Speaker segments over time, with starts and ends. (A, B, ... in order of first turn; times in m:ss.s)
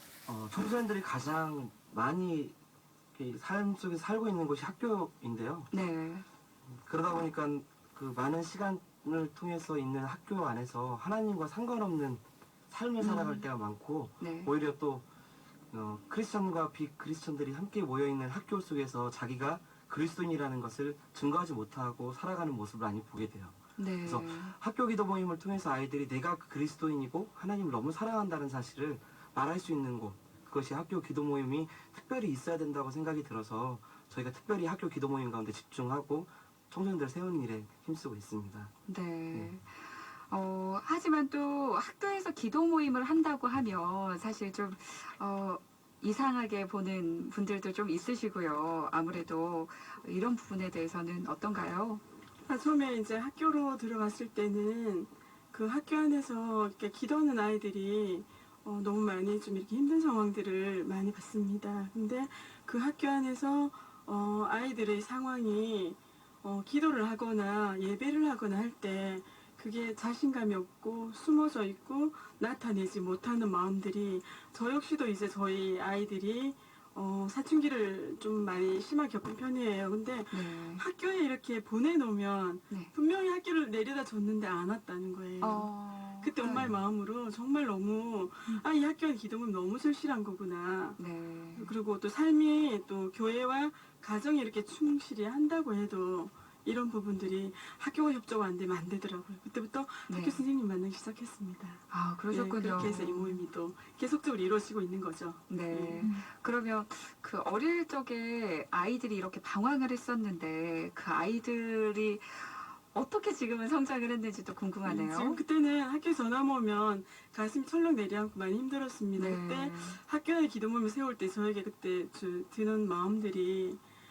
0:00.3-0:02.6 A
0:03.2-0:05.7 A
0:05.7-0:06.2 B
0:06.7-0:15.1 A
0:13.0-0:13.5 B
0:14.2-0:14.5 B
0:15.7-0:38.7 A
0:23.8-0:24.6 B
0:38.9-0:52.0 B
0:52.5-1:31.0 C
1:20.3-1:20.8 B
1:25.4-1:26.7 B
1:31.0-1:31.7 B
1:31.5-1:46.1 C
1:40.1-1:40.4 B
1:41.9-1:43.4 B
1:45.5-1:55.4 B
1:54.8-2:03.8 C
1:59.2-2:00.0 B